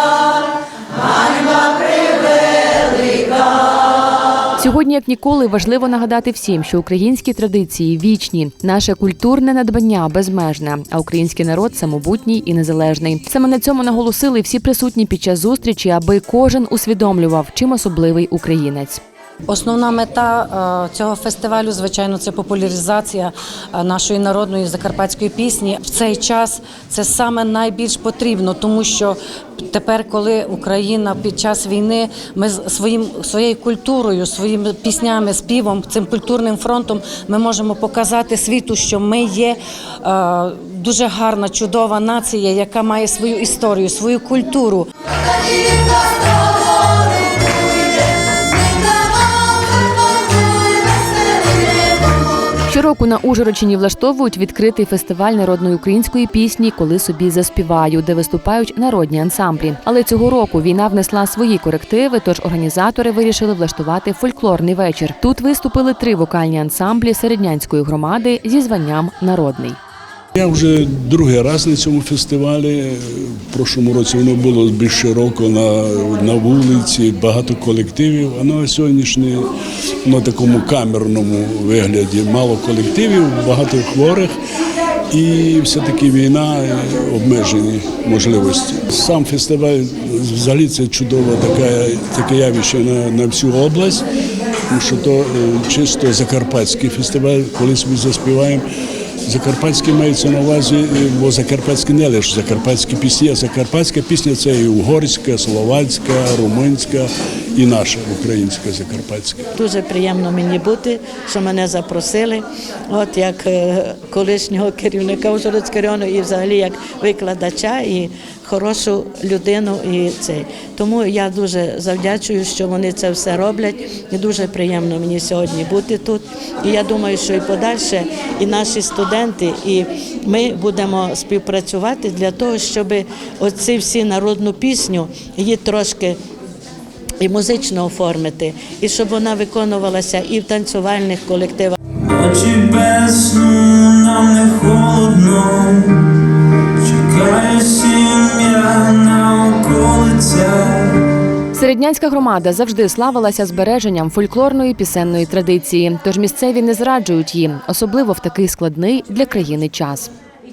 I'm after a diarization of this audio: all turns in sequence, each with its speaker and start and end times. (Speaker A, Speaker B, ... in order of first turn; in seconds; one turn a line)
Speaker A: 4.6-19.0
Speaker B: 19.5-44.9
Speaker A: 52.7-69.8
Speaker C: 70.3-79.5
Speaker C: 80.0-84.3
Speaker C: 85.1-94.0
Speaker C: 94.7-98.6
Speaker C: 99.3-109.5
Speaker D: 109.5-136.2
Speaker D: 137.2-141.8
Speaker E: 142.0-146.0
Speaker E: 146.8-151.0
Speaker A: 151.5-160.1